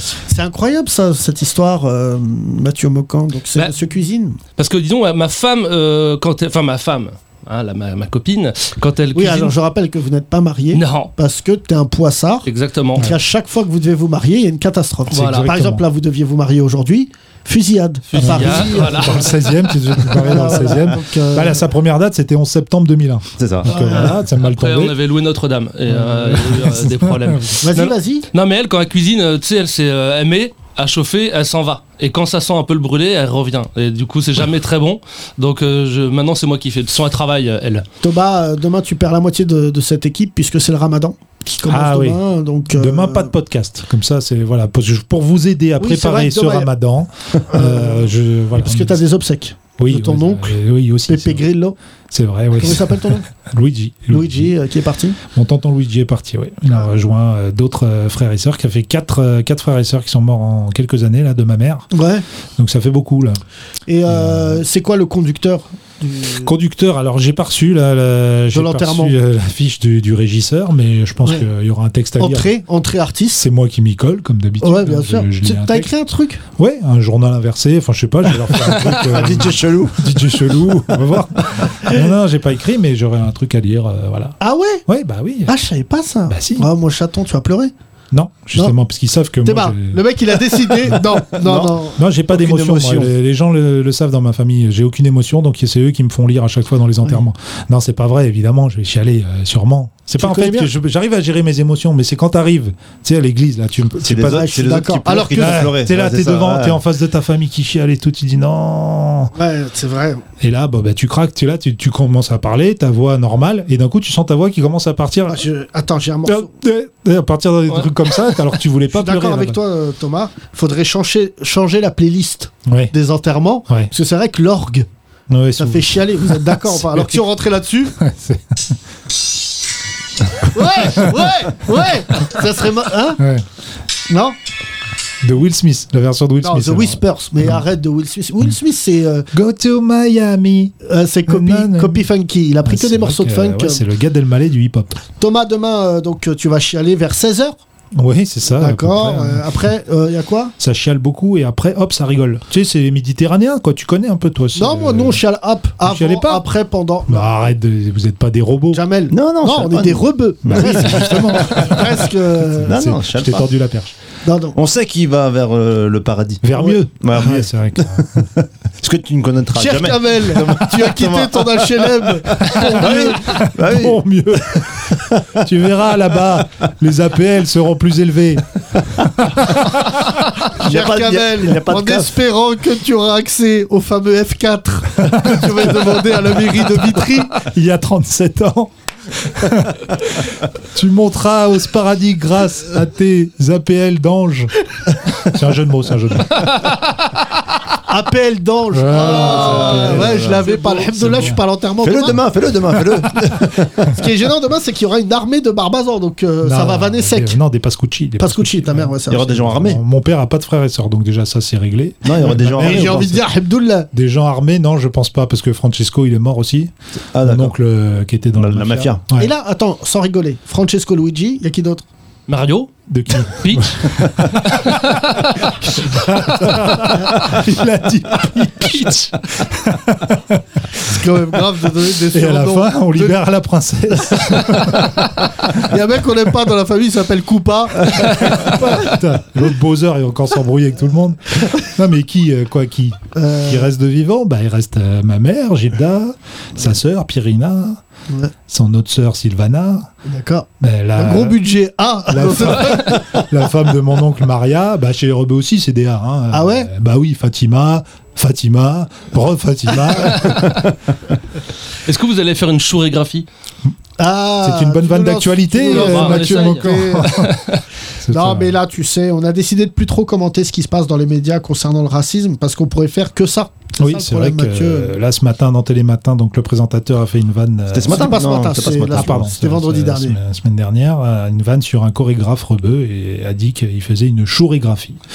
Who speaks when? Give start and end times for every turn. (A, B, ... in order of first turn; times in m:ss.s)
0:00.3-0:04.4 A
0:04.6-0:09.5 B
0:09.1-0:19.3 A
0:10.7-0:11.1 B
0:12.4-0:13.1 B
0:15.1-0:15.5 B
0:15.2-0:15.8 C
0:18.1-0:19.4 B
0:18.1-0:25.0 C
0:20.0-0:21.6 A
0:23.4-0:23.7 D
0:23.6-0:24.1 A
0:24.4-0:37.8 B
0:25.9-0:27.6 C
0:27.6-0:28.3 A
0:38.0-0:43.3 A
0:41.7-0:49.0 C
0:45.8-0:46.7 A
0:47.5-0:51.7 A
0:49.8-0:51.4 C
0:52.1-0:54.5 C
0:52.6-0:53.2 A
0:54.1-0:55.2 A
0:55.3-1:01.9 C
1:01.9-1:02.2 A
1:02.6-1:03.4 C
1:03.9-1:06.5 A
1:04.1-1:04.6 C
1:06.4-1:12.5 C
1:08.5-1:09.1 A
1:12.2-1:13.4 A
1:13.3-1:15.9 C
1:14.6-1:16.4 A
1:16.6-1:25.5 C
1:18.9-1:20.2 D
1:24.4-1:24.8 A
1:25.5-1:27.7 A
1:26.3-1:26.7 C
1:28.1-1:31.0 C
1:29.4-1:32.0 A
1:31.4-1:33.1 D
1:32.0-1:49.3 C
1:40.2-1:40.7 A
1:44.0-1:46.8 D
1:44.3-1:45.7 A
1:49.3-1:50.2 A
1:50.4-1:55.4 C
1:55.3-1:56.5 A
1:56.2-1:59.6 C
1:58.9-2:04.9 A
2:02.6-2:02.9 C
2:05.3-2:07.2 C
2:05.6-2:07.9 A
2:08.0-2:08.7 C
2:10.4-2:13.2 A
2:10.8-2:11.1 C
2:13.2-2:13.4 C
2:14.1-2:14.4 A
2:15.2-2:17.6 C
2:16.4-2:19.3 A
2:19.3-2:20.7 C
2:20.8-2:23.8 A
2:21.3-2:22.1 C
2:22.6-2:25.0 C
2:25.2-2:27.6 A
2:27.9-2:29.6 C
2:28.5-2:30.5 A
2:30.6-2:35.2 C
2:34.5-2:37.5 A
2:35.8-2:36.4 C
2:37.1-2:38.8 C
2:38.7-2:42.7 A
2:39.1-2:41.8 D
2:40.4-2:43.9 C
2:42.6-2:43.5 D
2:44.2-2:44.6 A
2:44.5-2:54.0 D
2:46.4-2:48.2 C
2:49.5-2:53.3 A
2:52.6-3:00.2 C
2:54.5-2:55.0 D
3:00.5-3:02.2 D
3:00.6-3:07.4 A
3:05.1-3:06.2 C
3:06.9-3:14.5 C
3:15.1-3:16.6 C
3:17.8-3:22.2 A
3:18.7-3:20.2 C
3:19.1-3:20.5 D
3:21.0-3:21.4 C
3:21.8-3:24.0 D
3:23.8-3:27.4 A
3:26.4-3:33.2 C
3:28.2-3:29.5 A
3:29.1-3:29.8 D
3:32.0-3:33.2 D
3:32.5-3:33.9 A
3:33.9-3:39.3 C
3:37.1-3:37.5 D
3:38.4-3:39.0 D
3:39.1-3:41.8 A
3:42.3-3:43.9 B
3:42.9-3:44.9 C
3:44.9-3:45.3 B
3:45.6-3:50.4 C
3:46.8-3:47.2 A
3:50.8-3:53.2 A
3:50.9-3:51.2 C
3:51.9-3:55.5 C
3:53.9-3:58.9 A
3:57.9-4:07.8 C
4:03.1-4:03.7 A
4:08.5-4:09.9 C
4:10.0-4:13.2 A
4:10.6-4:11.4 C
4:12.1-4:20.7 C
4:16.3-4:16.7 A
4:21.8-4:23.2 B
4:24.0-4:27.2 A
4:24.4-4:27.3 C
4:25.6-4:27.6 B
4:28.0-4:28.6 C
4:28.1-4:35.0 A
4:33.8-4:45.0 C
4:37.7-4:39.3 D
4:37.9-4:40.2 A